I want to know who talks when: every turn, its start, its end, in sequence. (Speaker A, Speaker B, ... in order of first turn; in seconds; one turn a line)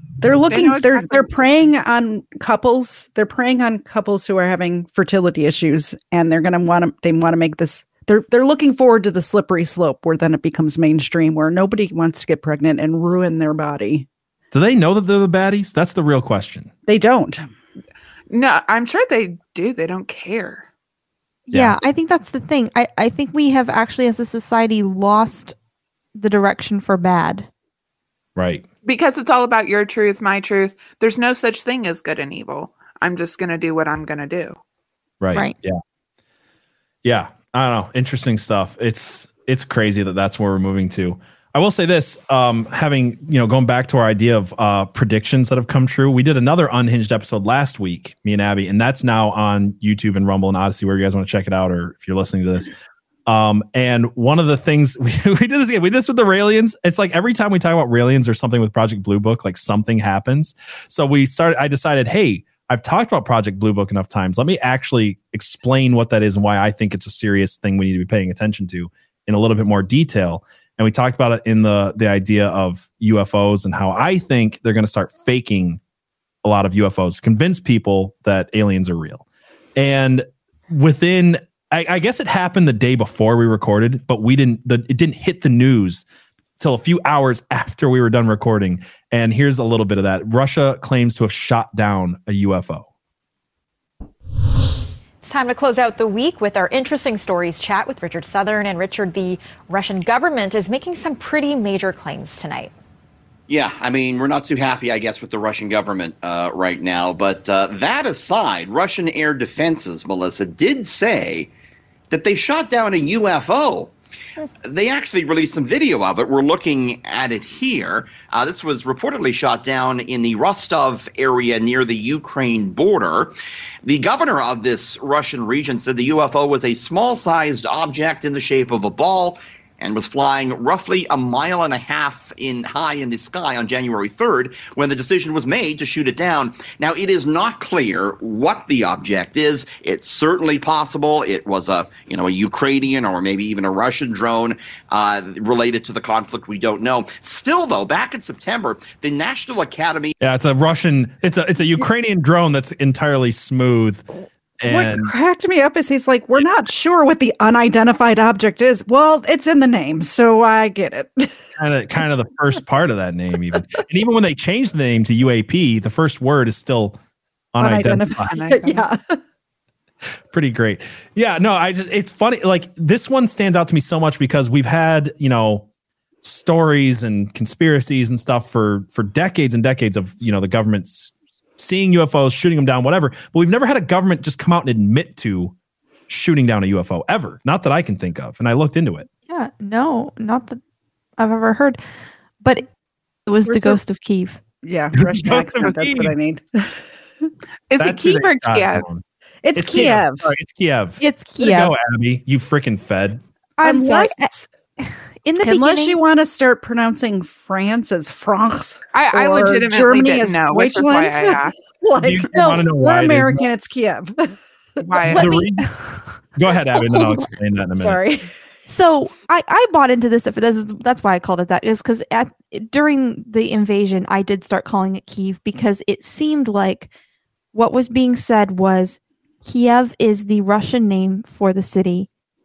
Speaker A: 0.2-14.1
Speaker B: 0.5-1.4
Speaker C: 14.5-16.7
Speaker A: 16.9-17.5
Speaker B: 18.3-20.7
Speaker D: 21.5-25.6
Speaker D: 26.2-27.5
Speaker C: 28.4-28.6
Speaker B: 28.8-34.6
Speaker C: 35.2-35.8
Speaker C: 37.0-52.7
Speaker C: 53.3-75.8
Speaker C: 76.4-79.2
Speaker C: 79.8-86.0
Speaker C: 86.6-92.8
Speaker E: 95.2-102.7
Speaker F: 103.5-111.5
Speaker F: 112.1-113.9
Speaker F: 114.6-150.1
Speaker C: 150.2-154.1
Speaker C: 154.6-155.1
Speaker A: 154.7-161.4
Speaker C: 161.6-167.0
Speaker C: 167.5-168.4
Speaker A: 167.6-169.2
Speaker B: 168.3-168.9
Speaker C: 170.3-175.7
Speaker C: 176.2-185.5
Speaker C: 186.1-189.1
Speaker D: 189.3-190.6
Speaker D: 191.2-191.8
Speaker D: 192.4-192.7
Speaker D: 193.3-194.4
Speaker A: 193.5-193.8
Speaker A: 194.6-197.3
Speaker C: 194.9-196.2
Speaker B: 197.7-198.8
Speaker C: 197.8-199.0
Speaker A: 199.4-200.3
Speaker C: 199.6-203.2
Speaker D: 201.0-201.7
Speaker D: 203.6-206.0
Speaker A: 203.6-204.5
Speaker A: 205.4-214.8
Speaker B: 208.9-211.6
Speaker C: 212.0-213.5
Speaker B: 214.8-215.4
Speaker C: 215.1-218.0
Speaker D: 215.1-216.0
Speaker D: 216.9-217.2
Speaker A: 217.8-218.3
Speaker D: 218.7-226.9
Speaker D: 227.5-232.1